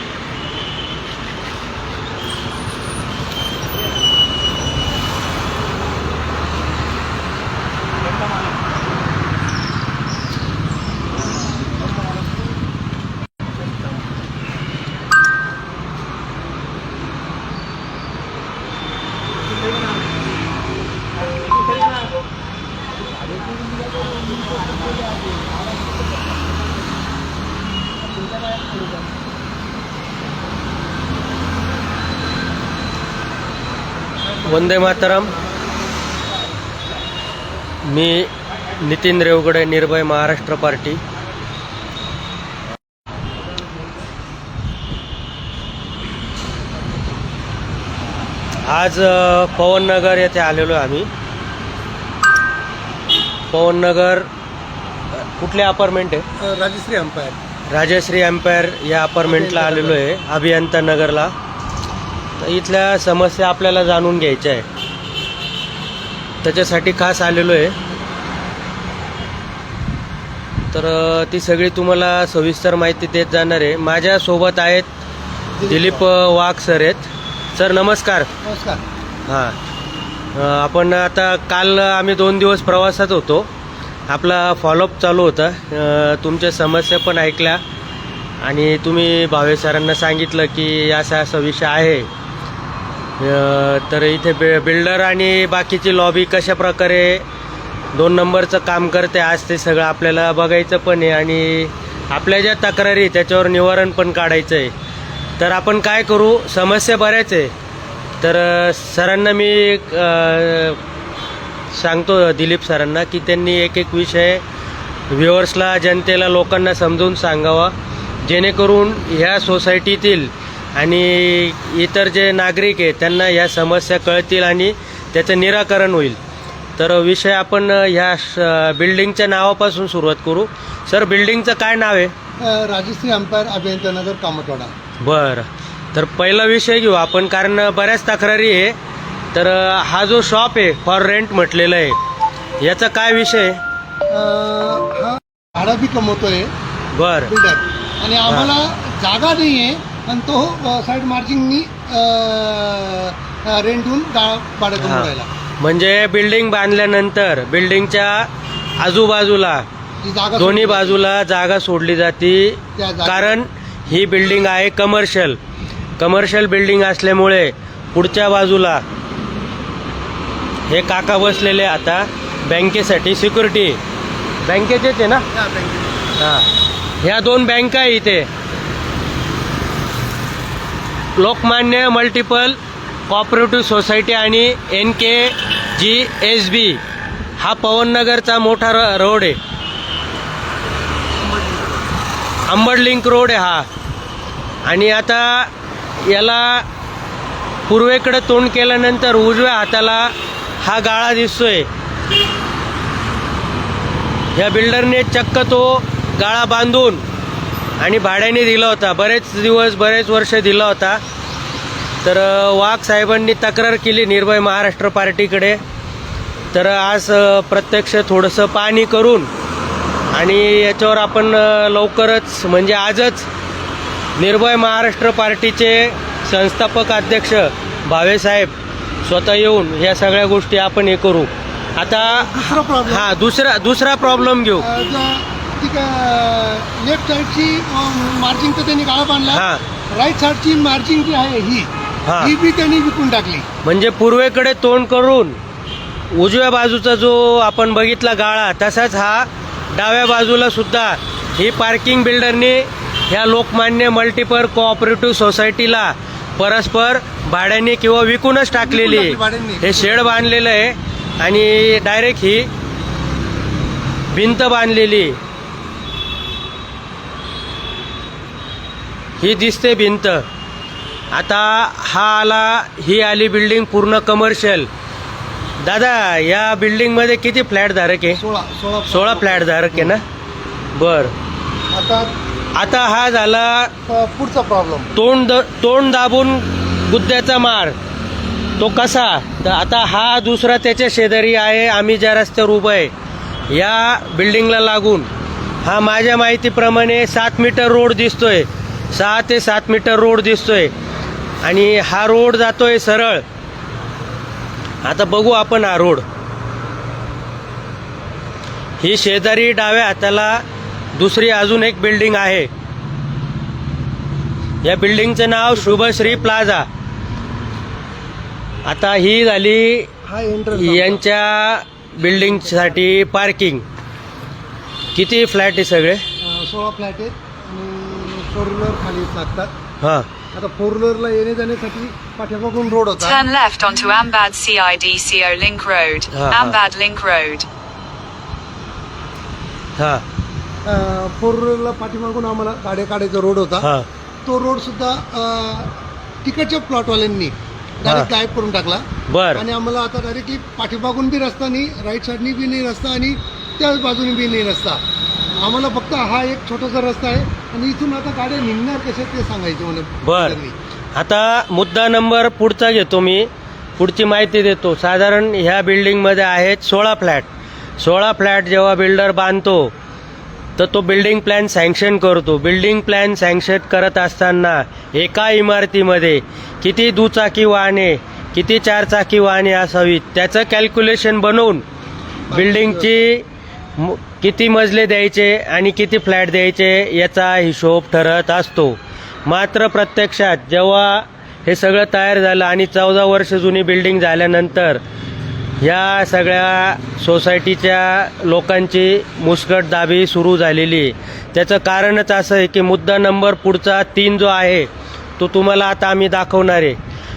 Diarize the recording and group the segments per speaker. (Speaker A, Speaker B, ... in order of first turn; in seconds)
Speaker A: 24.0-25.9, 28.3-28.9, 35.1-35.4, 56.4-57.4, 59.2-60.0, 75.6-76.0, 78.4-78.8, 132.4-134.7, 144.1-146.5, 147.2-155.3, 160.0-161.0, 162.8-163.4, 175.3-176.2, 191.2-191.9, 231.8-233.1, 234.6-243.5, 258.5-260.0, 278.1-280.0, 281.7-282.1, 283.9-284.9, 315.5-316.3, 320.0-321.0, 322.1-322.8, 326.2-329.5, 330.3-333.2, 340.6-343.7, 344.2-354.8, 355.4-360.5, 382.3-383.0
Speaker B: 34.4-35.3, 37.8-41.0, 48.6-51.1, 53.5-54.3, 55.2-56.2, 57.7-61.3, 62.4-64.7, 66.4-67.7, 70.7-74.9, 75.7-78.3, 79.3-79.5, 80.3-83.5, 84.1-87.6, 88.4-92.1, 93.2-97.2, 97.9-104.7, 105.4-107.5, 108.2-110.8, 111.7-114.4, 115.1-126.2, 126.8-132.1, 135.0-138.8, 139.3-142.0, 142.6-143.6, 146.9-147.3, 154.8-158.3, 158.8-159.6, 160.3-165.4, 166.0-168.8, 170.7-173.8, 174.4-175.2, 176.2-176.5, 177.0-178.3, 181.2-186.8, 187.4-189.4, 192.4-193.7, 194.6-195.5, 196.0-196.6, 197.7-201.7, 204.3-207.0, 207.8-211.0, 212.0-215.6, 216.5-219.3, 220.1-223.3, 224.2-228.5, 229.0-234.7, 239.3-239.6, 242.1-242.3, 243.6-245.4, 246.1-262.5, 264.1-265.2, 269.2-270.2, 271.1-274.7, 275.6-278.2, 278.9-280.0, 280.7-281.1, 282.5-283.7, 284.9-287.8, 288.6-292.9, 293.5-295.1, 295.6-300.7, 301.4-303.2, 304.8-306.0, 308.8-310.4, 310.9-312.5, 314.6-316.7, 318.6-319.9, 320.5-323.6, 324.9-326.0, 329.8-330.1, 336.1-336.6, 339.8-340.0, 343.6-343.9, 349.1-349.4, 360.0-360.4, 360.9-367.3, 367.8-369.7, 370.6-381.6, 382.3-383.2, 383.8-394.8, 395.6-404.7, 405.2-406.8
Speaker C: 333.0-337.4